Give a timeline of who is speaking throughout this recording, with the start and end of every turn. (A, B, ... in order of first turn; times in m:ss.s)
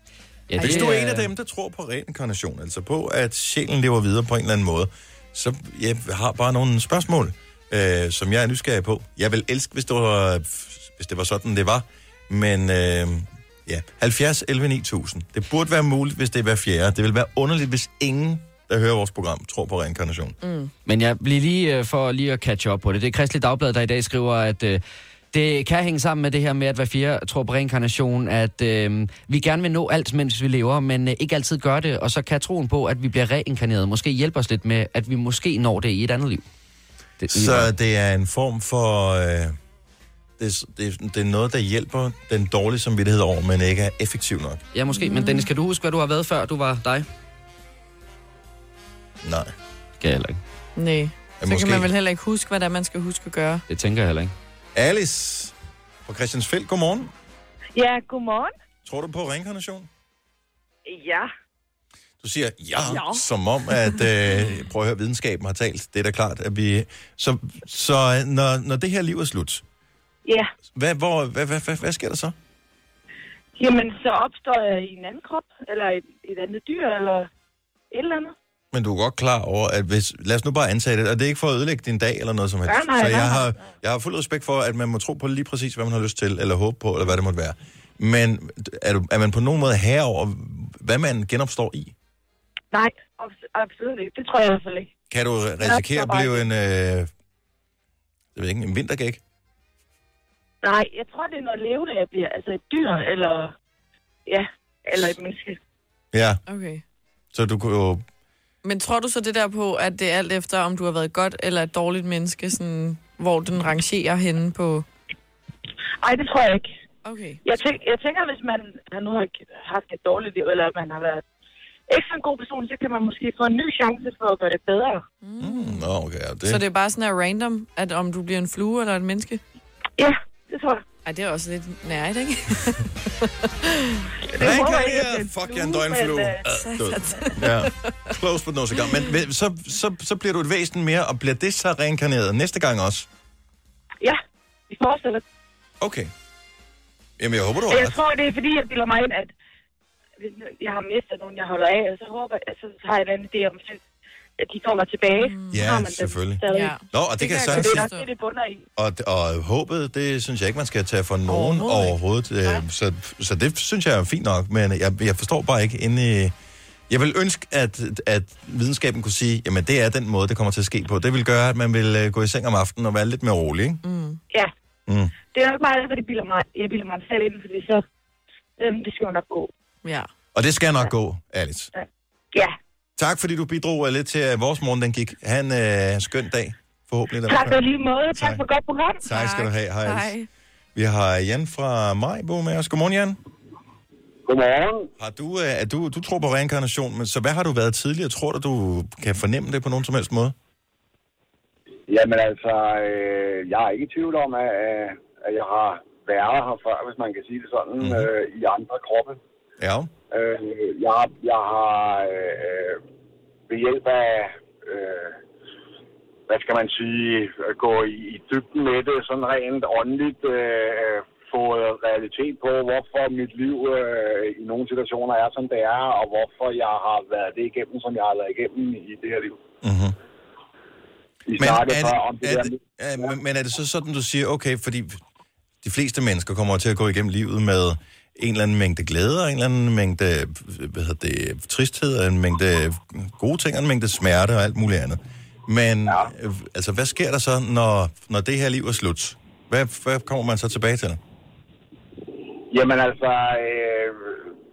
0:00.5-0:01.3 A
0:00.6-0:00.8 B
0:00.6-0:20.4 C
0:20.4-0:20.7 B
0:20.8-0:24.8 A
0:25.3-0:36.4 A
0:37.2-0:37.7 A
0:37.3-0:39.6 C
0:40.4-0:44.6 C
0:44.7-0:47.0 A
0:44.9-0:45.5 B
0:49.2-0:49.5 C
0:50.0-0:50.4 A
0:50.8-0:53.6 B
0:51.4-0:51.9 C
0:53.7-0:54.3 A
0:54.7-0:55.5 C
0:56.0-0:57.1 C
0:57.8-0:58.5 D
0:58.8-0:59.9 C
1:00.9-1:01.2 D
1:02.2-1:09.6 C
1:10.7-1:12.3 C
1:13.6-1:17.2 D
1:17.9-1:18.3 D
1:18.7-1:31.9 C
1:22.7-1:23.3 D
1:32.7-1:34.9 D
1:35.1-1:37.1 C
1:35.7-1:36.3 D
1:38.3-1:39.2 C
1:40.6-1:43.5 D
1:44.3-1:45.6 D
1:46.1-1:46.4 C
1:46.5-1:46.8 B
1:47.3-1:48.0 C
1:48.6-1:54.8 B
1:56.0-1:56.6 D
1:57.0-1:57.4 B
1:57.4-2:01.2 D
2:01.9-2:05.0 D
2:05.2-2:05.9 B
2:05.4-2:06.6 C
2:06.4-2:09.4 B
2:10.0-2:10.8 D
2:11.0-2:14.1 B
2:14.3-2:23.1 C
2:14.4-2:16.3 D
2:16.6-2:18.1 B
2:24.7-2:25.2 D
2:25.8-2:26.1 C
2:27.2-2:28.0 C
2:27.7-2:29.3 D
2:30.2-2:33.8 D
2:34.4-2:36.7 D
2:35.2-2:35.7 B
2:35.5-2:37.9 C
2:36.5-2:38.1 B
2:37.4-2:38.6 D
2:38.8-2:46.3 C
2:41.3-2:42.0 B
2:46.9-2:53.8 C
2:53.8-2:54.2 B
2:54.9-2:55.1 C
2:55.3-2:57.8 D
2:58.6-2:59.5 D
3:00.3-3:01.7 C
3:03.0-3:07.6 C
3:07.3-3:09.0 D
3:08.1-3:08.4 C
3:09.0-3:10.1 C
3:09.0-3:10.3 B
3:10.7-3:13.2 C
3:14.2-3:14.9 E
3:15.0-3:20.3 C
3:21.9-3:29.2 E
3:27.8-3:28.1 C
3:29.6-3:29.9 C
3:30.1-3:32.8 E
3:33.5-3:35.2 E
3:36.3-3:49.4 E
3:49.6-3:50.0 C
3:51.3-3:53.1 E
3:51.4-3:55.0 C
3:55.6-4:11.0 C
4:12.5-4:14.3 E